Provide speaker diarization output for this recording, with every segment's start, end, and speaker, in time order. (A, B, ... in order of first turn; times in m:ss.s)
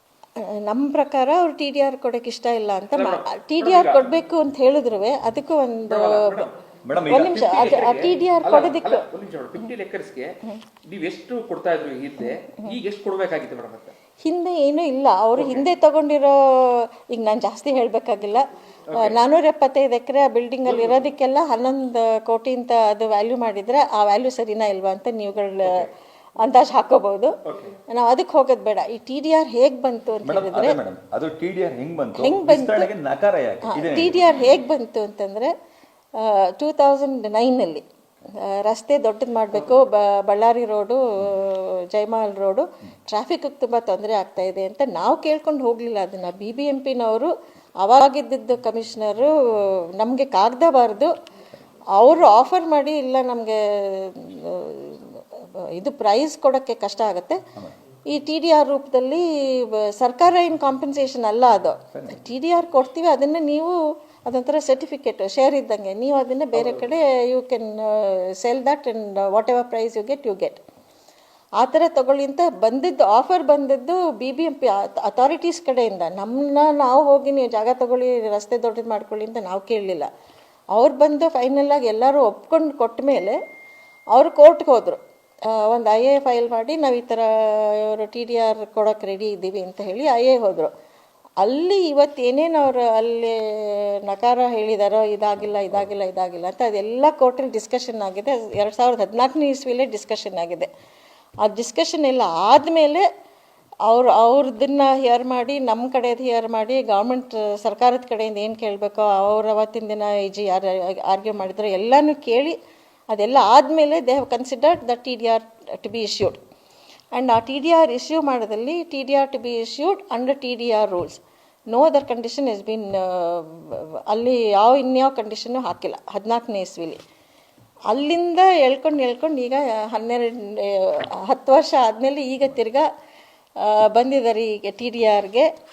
0:00.4-0:06.5 A
0:03.0-0:04.1 B
0:05.9-0:06.6 B
0:06.8-0:07.6 C
0:07.1-0:09.1 A
0:07.1-0:10.3 B
0:10.8-0:14.0 B
0:12.2-0:12.8 A
0:14.2-0:25.9 A
0:15.4-0:15.7 B
0:18.9-0:19.2 B
0:20.6-0:21.0 B
0:25.6-0:25.9 B
0:26.4-0:30.8 A
0:27.4-0:27.8 B
0:30.2-0:34.3 C
0:32.2-0:32.9 A
0:33.6-0:35.5 A
0:36.2-0:37.8 A
0:38.4-0:51.1 A
0:51.9-0:57.4 A
0:58.1-1:10.6 A
1:01.9-1:02.2 C
1:11.6-1:20.1 A
1:20.7-1:23.4 A
1:24.1-1:30.7 A
1:31.4-1:40.7 A
1:41.4-1:43.1 A
1:43.9-1:52.6 A
1:53.1-1:56.4 A
1:57.1-2:07.0 A
2:07.9-2:12.9 A
2:13.6-2:15.5 A